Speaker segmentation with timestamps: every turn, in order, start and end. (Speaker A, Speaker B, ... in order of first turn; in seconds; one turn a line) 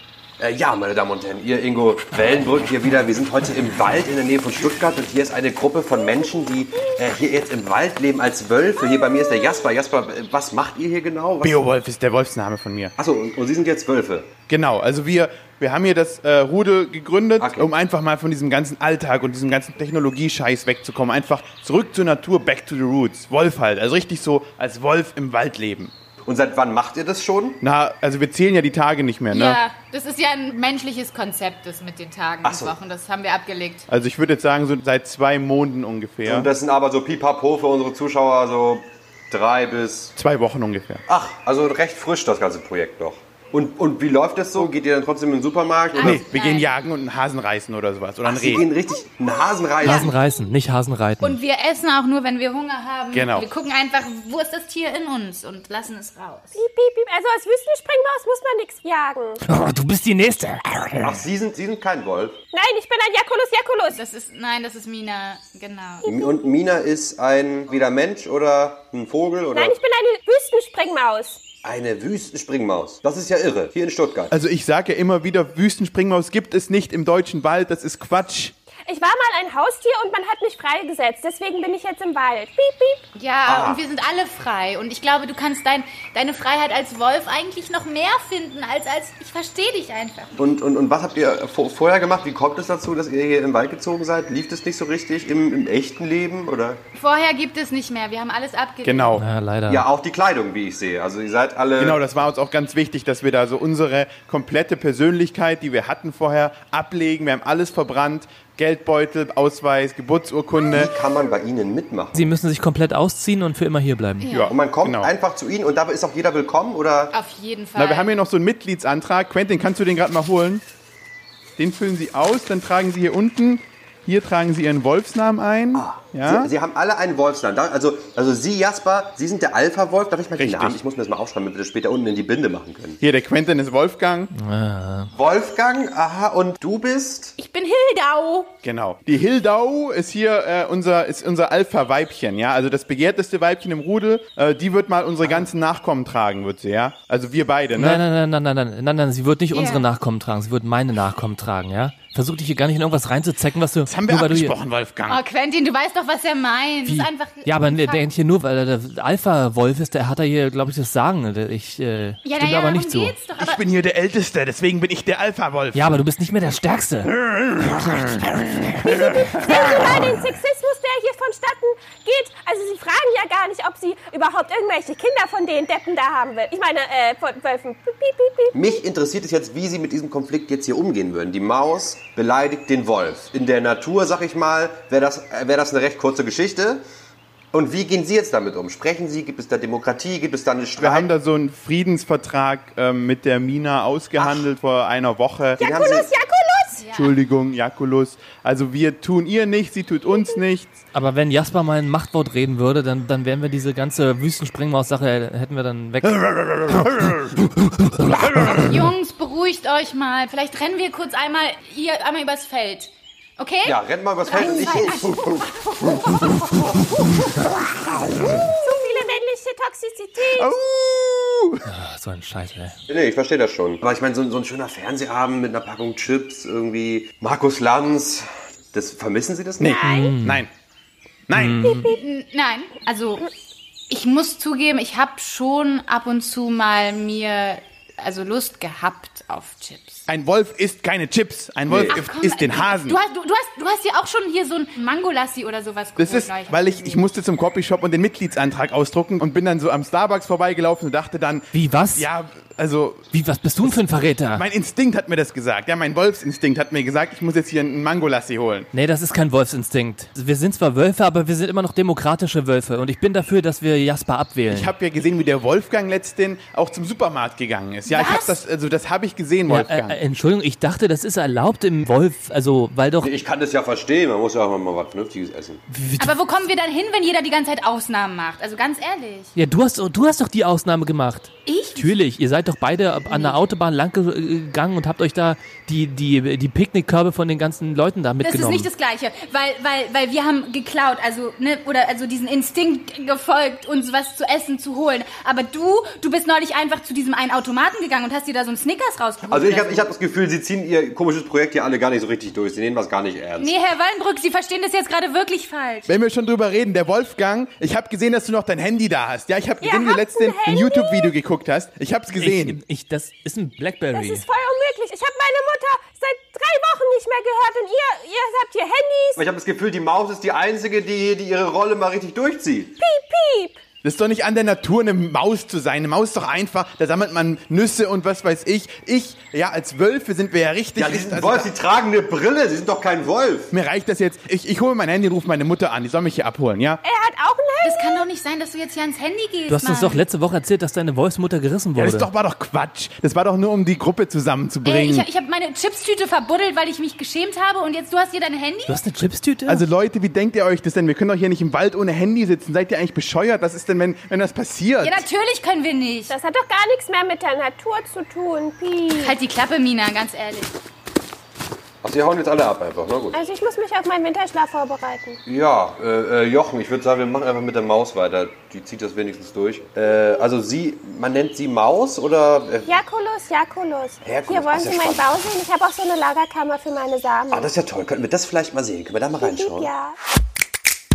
Speaker A: 0.4-11.6
Speaker B: 11.4-12.9
Speaker A: 13.0-14.3
Speaker B: 14.5-25.9
Speaker A: 17.4-17.7
Speaker A: 26.2-27.6
Speaker B: 27.6-29.6
Speaker C: 29.3-33.9
Speaker A: 32.4-32.8
Speaker B: 33.9-36.5
Speaker A: 36.2-40.1
Speaker B: 40.2-41.0
Speaker A: 41.1-46.2
Speaker C: 46.0-46.7
Speaker B: 46.0-48.6
Speaker A: 48.2-50.1
Speaker D: 49.8-51.4
Speaker C: 49.8-50.1
Speaker C: 51.2-56.6
Speaker B: 53.1-53.5
Speaker E: 56.5-59.4
Speaker D: 59.4-61.2
Speaker A: 61.0-62.4
Speaker E: 62.5-64.0
Speaker C: 63.9-66.1
Speaker E: 66.0-66.5
Speaker A: 66.0-69.8
Speaker E: 69.5-71.4
Speaker A: 71.6-74.3
Speaker B: 74.3-78.5
Speaker E: 78.9-83.0
Speaker C: 83.1-90.3
Speaker A: 83.5-83.8
Speaker A: 90.4-96.8
Speaker C: 96.9-99.2
Speaker B: 98.8-99.3
Speaker D: 99.1-99.8
Speaker A: 99.7-102.0
Speaker B: 101.8-110.9
Speaker A: 110.7-112.2
Speaker D: 112.1-114.3
Speaker C: 114.2-114.5
Speaker B: 114.3-115.1
Speaker A: 114.5-117.1
Speaker C: 117.1-118.1
Speaker B: 117.8-120.6
Speaker B: 121.6-126.5
Speaker A: 125.7-133.0
Speaker B: 130.4-130.8
Speaker B: 133.0-134.3
Speaker D: 134.3-135.1
Speaker A: 135.1-137.3
Speaker C: 137.4-138.5
Speaker B: 138.6-148.0
Speaker D: 147.7-154.5
Speaker C: 149.5-149.9
Speaker B: 153.8-155.2
Speaker C: 155.1-158.0
Speaker D: 156.8-163.2
Speaker C: 162.2-163.6
Speaker B: 163.4-166.0
Speaker D: 165.7-167.1
Speaker B: 167.2-168.0
Speaker D: 168.0-168.6
Speaker E: 168.8-178.8
Speaker B: 168.8-169.6
Speaker A: 178.5-186.8
Speaker A: 187.5-191.1
Speaker B: 190.8-195.6
Speaker A: 194.2-194.5
Speaker E: 195.6-196.8
Speaker A: 195.6-196.1
Speaker C: 196.8-197.2
Speaker B: 196.9-200.7
Speaker D: 200.9-207.2
Speaker C: 208.5-215.1
Speaker A: 213.6-215.3
Speaker E: 214.4-215.0
Speaker E: 215.8-216.4
Speaker E: 218.4-220.5
Speaker B: 220.3-221.6
Speaker D: 221.6-222.8
Speaker A: 222.9-229.8
Speaker B: 229.6-230.5
Speaker E: 229.6-230.2
Speaker D: 229.8-230.4
Speaker B: 231.3-231.6
Speaker D: 231.3-231.9
Speaker E: 231.6-231.9
Speaker C: 231.8-233.3
Speaker C: 233.9-240.0
Speaker B: 240.1-243.0
Speaker A: 241.7-242.0
Speaker C: 241.9-247.1
Speaker B: 246.0-253.1
Speaker D: 251.5-252.1
Speaker D: 253.1-254.4
Speaker B: 253.6-258.7
Speaker D: 258.7-264.7
Speaker B: 264.5-270.0
Speaker C: 267.9-268.4
Speaker D: 269.5-273.1
Speaker A: 273.0-275.6
Speaker D: 275.7-276.2
Speaker C: 276.0-279.3
Speaker D: 279.3-288.7
Speaker C: 281.4-281.9
Speaker C: 283.1-283.4
Speaker C: 288.2-299.9
Speaker A: 299.3-303.6
Speaker C: 303.4-305.9
Speaker B: 305.9-312.6
Speaker E: 309.6-311.1
Speaker D: 312.2-314.2
Speaker E: 313.9-319.2
Speaker A: 319.1-322.8
Speaker E: 322.8-323.6
Speaker B: 323.8-331.5
Speaker A: 330.8-333.5
Speaker B: 333.5-336.8
Speaker E: 336.8-338.1
Speaker C: 337.6-340.0
Speaker D: 339.5-342.1
Speaker B: 341.8-345.1
Speaker C: 344.6-348.8
Speaker D: 348.7-349.6
Speaker B: 349.4-355.1
Speaker C: 354.8-356.1
Speaker E: 356.1-359.2
Speaker C: 358.9-360.5
Speaker A: 361.8-363.2
Speaker E: 363.1-365.2
Speaker A: 365.2-372.8
Speaker E: 372.6-377.5
Speaker A: 374.0-375.3
Speaker A: 377.3-379.7
Speaker E: 379.2-380.0